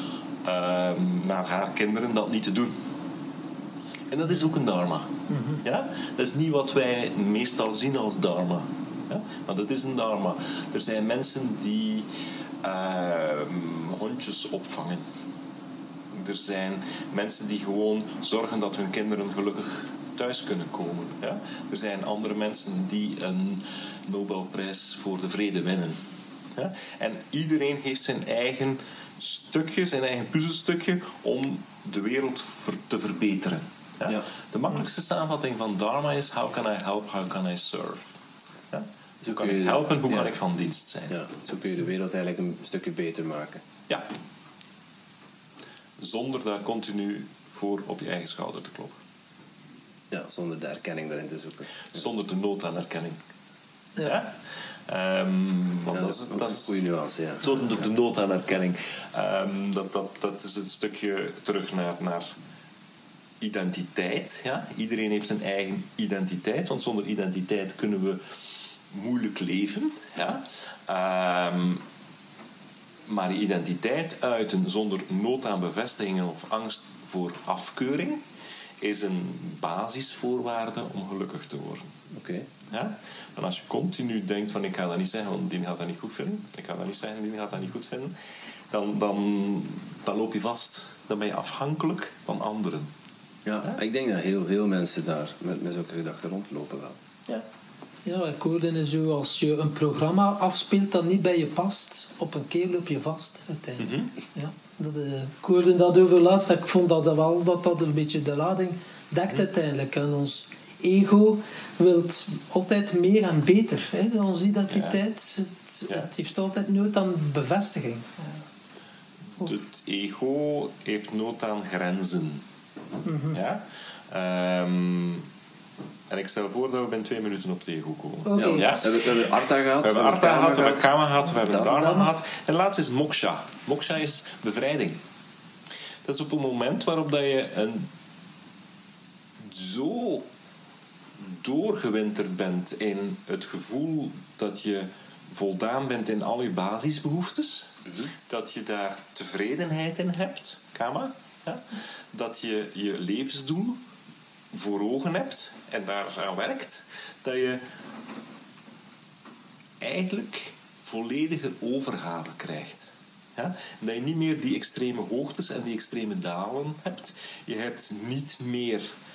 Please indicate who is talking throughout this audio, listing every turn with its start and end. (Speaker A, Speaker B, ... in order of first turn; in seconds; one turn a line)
Speaker A: 0.4-2.7
Speaker A: 4.1-5.1
Speaker B: 5.3-5.6
Speaker A: 5.6-12.1
Speaker A: 12.6-15.0
Speaker A: 16.1-26.0
Speaker A: 26.6-38.2
Speaker A: 38.7-41.1
Speaker C: 39.2-40.3
Speaker C: 41.1-43.6
Speaker A: 46.0-49.0
Speaker C: 50.1-51.9
Speaker A: 51.9-53.2
Speaker A: 54.0-54.3
Speaker A: 54.9-56.7
Speaker C: 55.9-57.8
Speaker A: 57.4-62.3
Speaker A: 63.4-68.2
Speaker A: 68.9-71.8
Speaker A: 73.1-78.2
Speaker A: 78.8-81.9
Speaker C: 82.1-82.5
Speaker A: 82.7-88.1
Speaker A: 88.7-92.9
Speaker C: 93.4-97.0
Speaker B: 98.0-118.4
Speaker A: 103.8-104.1
Speaker A: 114.7-115.0
Speaker A: 119.4-122.4
Speaker B: 123.0-123.4
Speaker A: 123.3-125.3
Speaker A: 126.1-135.0
Speaker B: 128.3-128.9
Speaker C: 128.3-130.9
Speaker B: 131.6-132.1
Speaker A: 136.0-137.9
Speaker A: 139.4-140.3
Speaker A: 141.2-153.8
Speaker A: 154.5-157.6
Speaker A: 159.8-168.9